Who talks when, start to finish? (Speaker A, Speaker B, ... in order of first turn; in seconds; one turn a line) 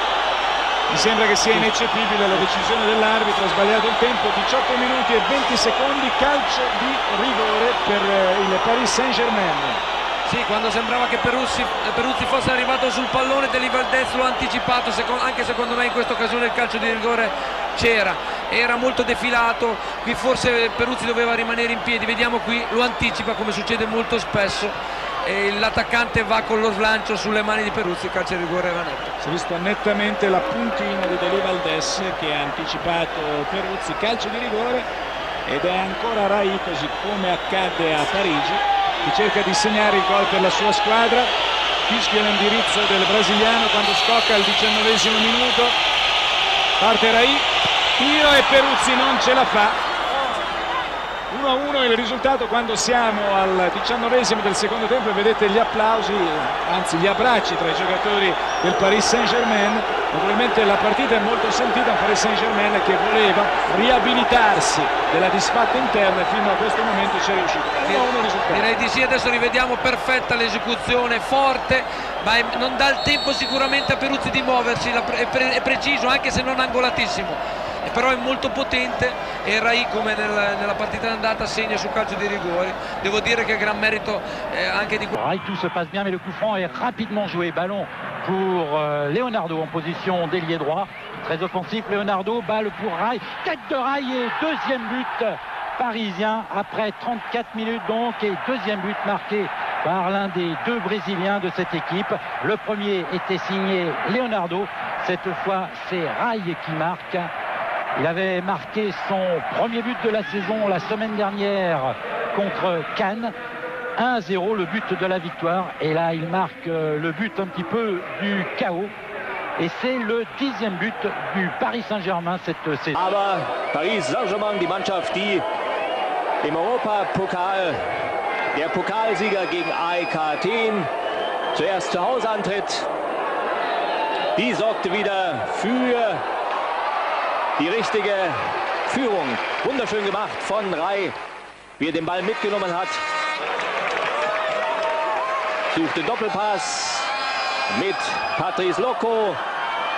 Speaker A: 0.9-9.8
Speaker B: 10.2-29.1
Speaker A: 29.2-34.9
Speaker A: 35.5-41.3
Speaker A: 41.9-45.8
Speaker A: 46.8-47.5
Speaker A: 48.0-49.8
Speaker A: 51.3-68.7
Speaker B: 67.8-85.1
Speaker C: 85.1-107.3
Speaker C: 108.0-113.3
Speaker C: 114.0-118.9
Speaker C: 119.6-123.0
Speaker D: 122.9-125.4
Speaker D: 126.4-127.8
Speaker D: 128.5-130.9
Speaker D: 131.5-132.8
Speaker D: 134.3-136.2
Speaker D: 137.6-141.1
Speaker D: 141.8-143.0
Speaker D: 145.7-147.1
Speaker D: 147.7-149.4